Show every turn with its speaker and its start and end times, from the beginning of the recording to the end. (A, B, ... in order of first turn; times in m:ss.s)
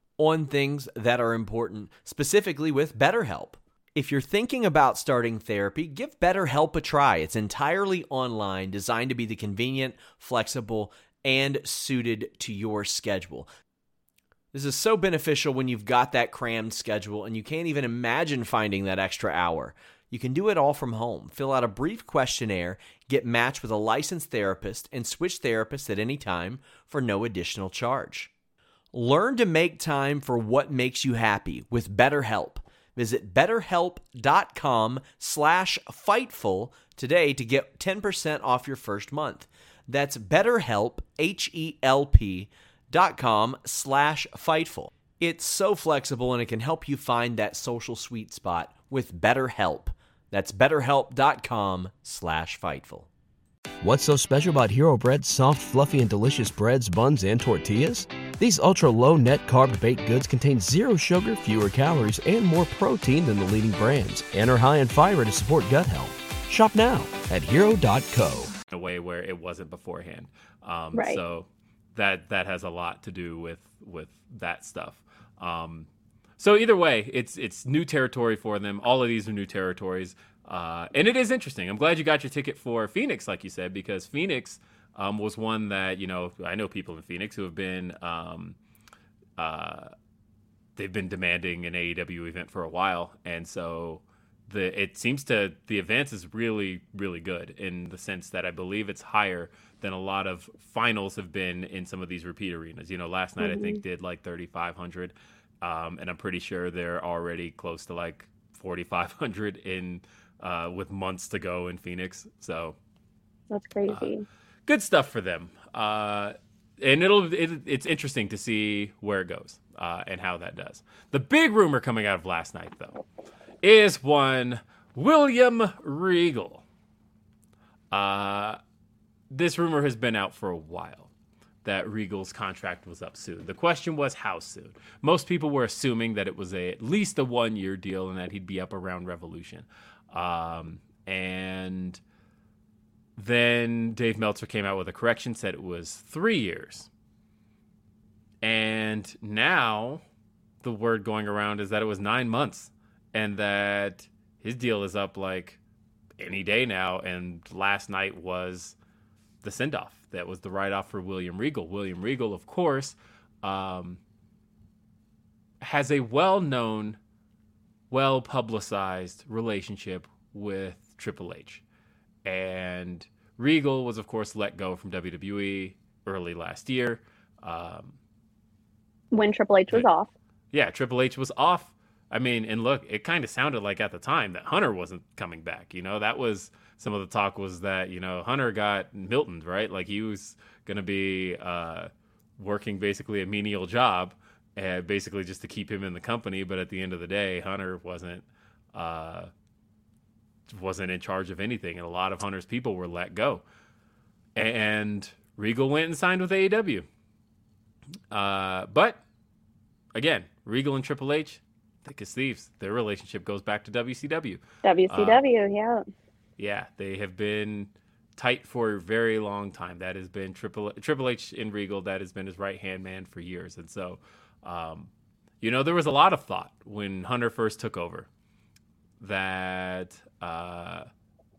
0:00.2-0:13.5 A
0:14.5-0:28.3 A
0:28.9-0:53.1 A
0:53.8-1:08.5 B
1:08.7-1:15.9 C
1:10.9-1:11.2 D
1:16.4-1:28.6 C
1:29.4-1:29.9 C
1:30.8-1:52.8 C
1:43.4-1:43.8 D
1:53.5-1:54.2 D
1:54.7-2:03.0 C
2:03.6-2:06.6 C
2:07.9-2:08.6 C
2:09.3-2:11.1 C
2:11.6-2:22.0 C
2:23.2-2:26.9 C
2:28.4-2:30.0 C
2:30.6-2:35.6 C
2:36.2-2:38.8 C
2:39.4-2:44.0 C
2:45.6-2:47.0 C
2:47.9-2:51.6 C
2:52.2-2:58.0 C
2:59.1-3:00.1 D
3:00.5-3:19.3 C
3:20.5-3:23.4 C
3:24.4-3:26.8 C
3:28.1-3:29.0 C
3:29.9-3:35.2 C
3:34.6-3:35.8 D
3:36.4-3:44.9 C
3:45.4-3:48.1 C
3:49.0-3:50.9 C